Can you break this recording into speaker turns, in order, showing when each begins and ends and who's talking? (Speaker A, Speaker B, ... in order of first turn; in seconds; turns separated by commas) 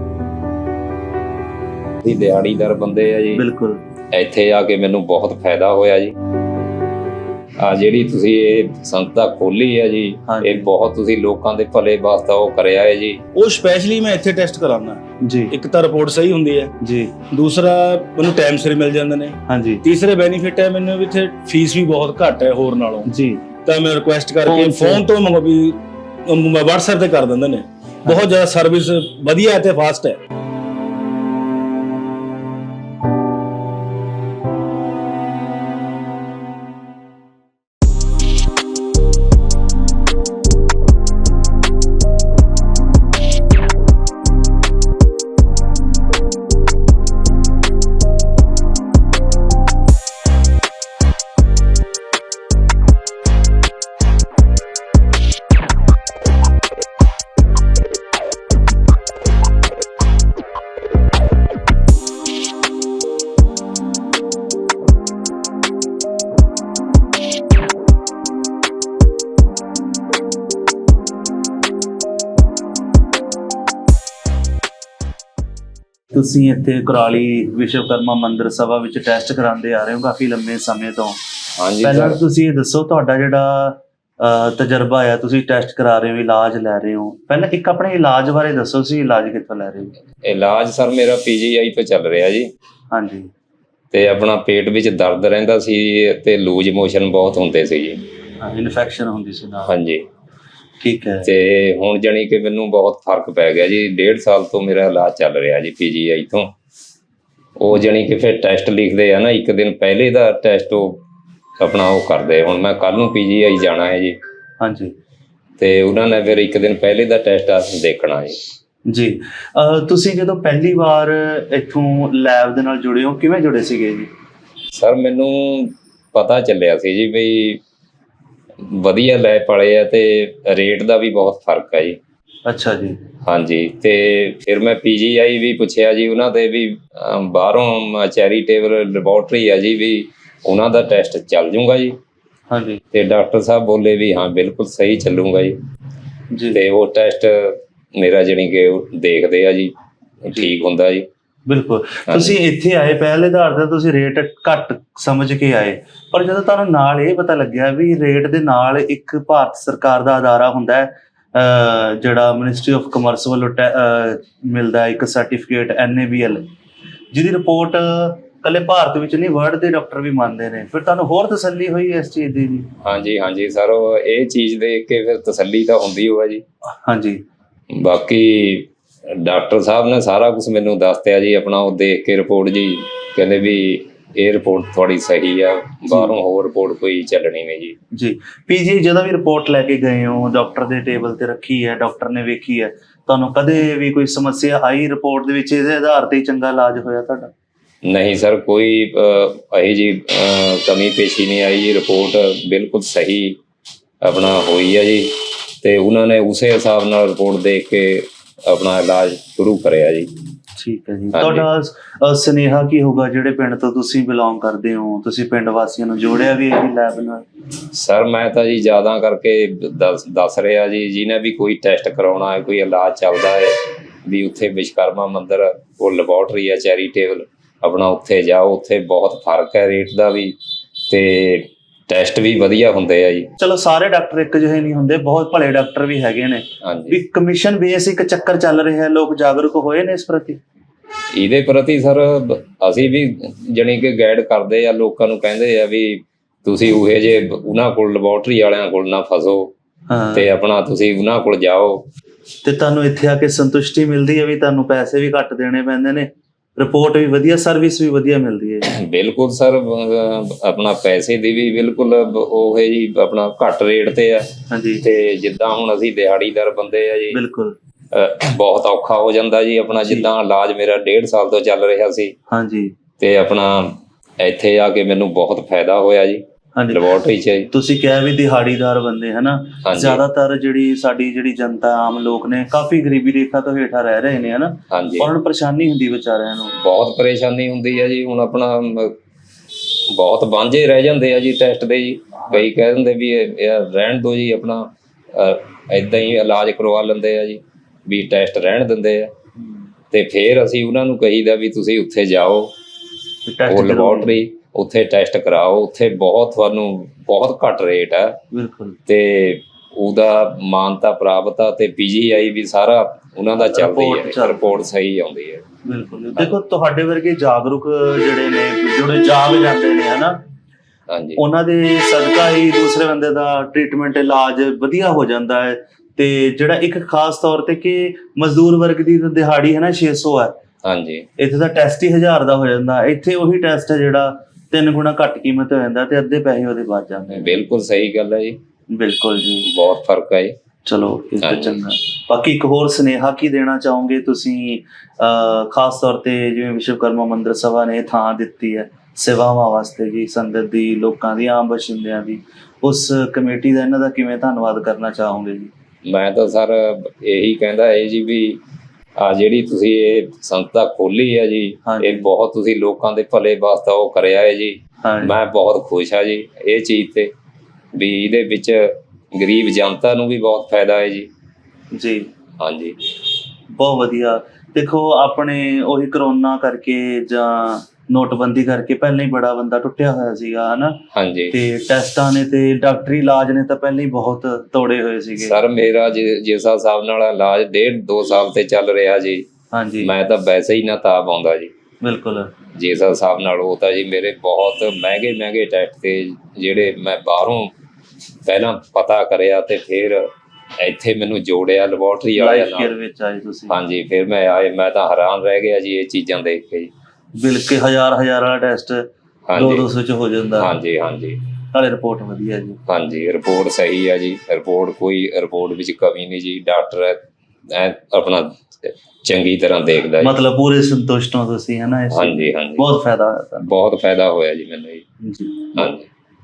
Speaker A: 2.0-3.4, Speaker B: 3.4-3.8, Speaker A: 4.1-6.1, Speaker A: 7.6-13.2, Speaker B: 10.3-10.7, Speaker C: 13.3-16.7, Speaker B: 15.2-15.5, Speaker B: 16.8-17.2, Speaker C: 17.3-23.1, Speaker B: 19.5-19.8, Speaker B: 23.1-23.4, Speaker C: 23.7-30.2, Speaker B: 24.4-25.0, Speaker B: 76.1-81.2, Speaker A: 81.6-82.2, Speaker B: 81.8-89.9, Speaker A: 90.2-92.5, Speaker B: 92.9-93.3, Speaker A: 93.9-98.0, Speaker B: 98.4-99.7, Speaker A: 99.7-100.0, Speaker B: 100.8-101.3, Speaker A: 101.2-106.5, Speaker A: 107.6-111.0, Speaker A: 111.6-114.2, Speaker B: 114.6-114.9, Speaker A: 115.6-118.4, Speaker B: 118.9-124.1, Speaker A: 124.7-127.6, Speaker A: 128.6-132.0, Speaker B: 132.5-133.0, Speaker A: 133.3-142.0, Speaker B: 142.5-142.8, Speaker A: 142.9-145.6, Speaker B: 146.3-146.6, Speaker A: 146.5-149.7, Speaker A: 150.2-151.1, Speaker B: 151.5-166.4, Speaker A: 152.1-152.4, Speaker B: 167.1-172.7, Speaker A: 172.8-176.4, Speaker B: 176.8-177.2, Speaker A: 177.7-187.8, Speaker B: 187.9-197.3, Speaker A: 197.8-203.4, Speaker A: 204.0-210.1, Speaker B: 210.6-217.2, Speaker A: 211.1-211.5, Speaker A: 217.7-230.4, Speaker A: 230.9-233.3, Speaker B: 233.4-240.4, Speaker A: 236.6-237.0, Speaker A: 241.1-249.5, Speaker B: 249.9-250.3, Speaker A: 250.2-251.9, Speaker B: 252.4-258.7, Speaker A: 258.8-264.3, Speaker B: 264.5-264.8, Speaker A: 264.8-267.2, Speaker B: 267.1-267.6, Speaker A: 267.9-272.1, Speaker B: 272.3-272.7, Speaker A: 273.0-277.5, Speaker B: 276.6-276.8, Speaker B: 277.5-286.6, Speaker A: 279.6-280.0, Speaker A: 284.7-285.1, Speaker A: 286.6-289.0, Speaker A: 289.9-299.1, Speaker A: 299.9-302.5, Speaker B: 303.3-304.2, Speaker A: 303.5-308.2, Speaker B: 308.3-308.8, Speaker A: 308.9-315.4, Speaker B: 313.4-314.5, Speaker B: 315.6-320.2, Speaker A: 320.9-321.2, Speaker B: 321.2-330.4, Speaker A: 330.6-331.1, Speaker B: 331.2-337.3, Speaker A: 337.1-338.4, Speaker B: 338.7-339.5, Speaker A: 339.4-340.4, Speaker B: 340.6-355.5, Speaker A: 341.2-341.6, Speaker A: 355.9-358.4, Speaker A: 359.0-367.1, Speaker B: 361.7-362.1, Speaker B: 364.8-365.1, Speaker A: 367.7-371.1, Speaker B: 371.7-372.1, Speaker A: 372.4-372.8, Speaker B: 373.5-380.8, Speaker A: 380.9-381.4, Speaker B: 381.3-385.4, Speaker A: 385.2-389.3, Speaker B: 389.5-389.9, Speaker A: 389.8-391.5, Speaker B: 391.8-392.3, Speaker A: 392.6-397.5, Speaker A: 398.3-400.1, Speaker A: 400.6-402.7, Speaker B: 402.2-403.5, Speaker A: 403.5-406.7, Speaker B: 407.2-408.9, Speaker A: 409.3-409.7, Speaker B: 409.4-410.5, Speaker A: 410.4-411.2, Speaker B: 411.5-412.6, Speaker A: 412.7-420.1, Speaker B: 420.0-423.5, Speaker A: 421.9-422.7, Speaker A: 423.4-424.9, Speaker B: 425.0-425.5, Speaker A: 425.5-425.9